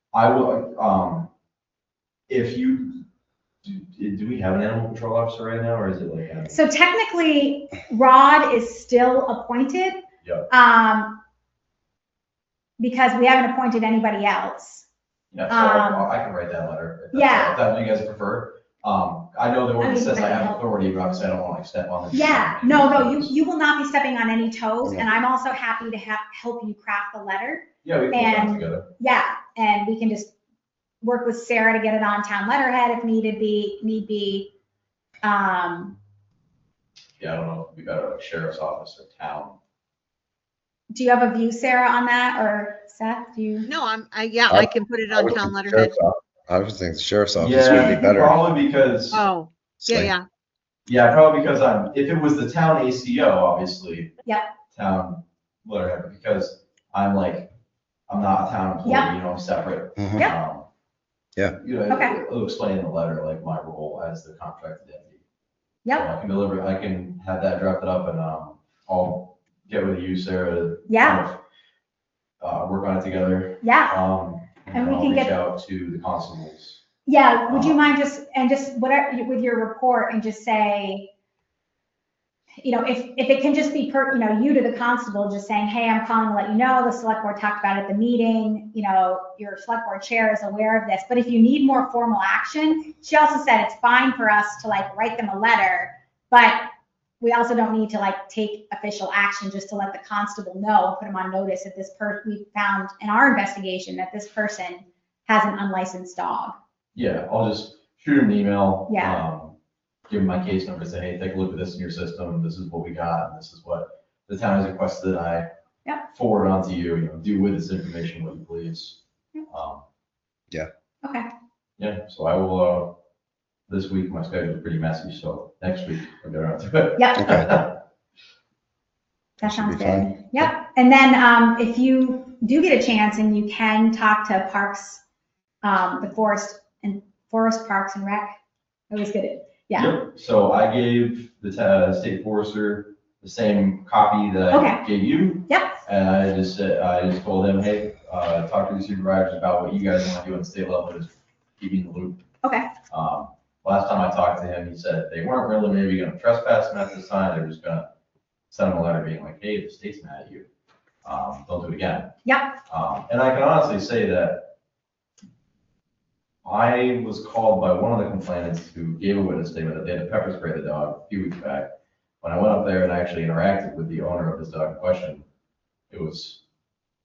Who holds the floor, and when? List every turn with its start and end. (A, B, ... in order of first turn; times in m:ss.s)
0:00.1-0:01.3 A
0:02.3-0:03.0 A
0:03.6-0:06.6 A
0:06.5-0:11.2 B
0:12.8-0:14.9 B
0:15.3-0:23.3 A
0:15.5-0:16.1 B
0:17.1-0:17.6 B
0:19.8-0:20.6 B
0:22.1-0:30.3 B
0:27.8-0:28.9 A
0:31.0-0:34.5 B
0:35.2-0:36.0 B
0:37.2-0:39.6 A
0:40.9-0:43.7 B
0:43.6-0:46.0 C
0:44.5-0:48.4 D
0:47.4-0:49.2 A
0:47.7-0:48.0 C
0:49.1-0:50.3 C
0:49.9-0:50.1 D
0:50.9-0:54.1 A
0:54.7-0:57.5 A
0:58.1-1:00.7 A
0:58.8-0:59.1 B
1:00.0-1:00.3 D
1:01.5-1:05.2 A
1:01.9-1:02.2 B
1:05.8-1:06.1 B
1:05.9-1:11.4 A
1:10.9-1:11.2 B
1:12.4-1:16.8 A
1:13.6-1:14.0 B
1:14.7-1:15.3 B
1:17.1-1:21.1 B
1:17.5-1:17.8 A
1:22.6-1:36.7 B
1:37.2-1:46.6 B
1:47.0-1:49.6 A
1:48.9-1:49.2 B
1:50.1-1:55.5 A
1:56.1-1:59.8 A
2:01.0-2:01.3 B
2:01.8-2:02.9 A
2:03.7-2:07.8 A
2:07.0-2:07.3 B
2:09.4-2:15.0 B
2:09.4-2:10.1 D
2:15.6-2:18.4 B
2:18.9-2:19.9 B
2:19.7-2:32.2 A
2:24.5-2:24.8 B
2:25.5-2:25.7 B
2:32.4-2:32.7 B
2:32.9-2:37.9 A
2:38.5-2:40.5 A
2:41.0-2:42.1 A
2:42.2-2:42.5 B
2:42.7-2:44.5 A
2:46.4-2:51.7 A
2:52.2-2:55.2 A
2:55.9-2:56.4 A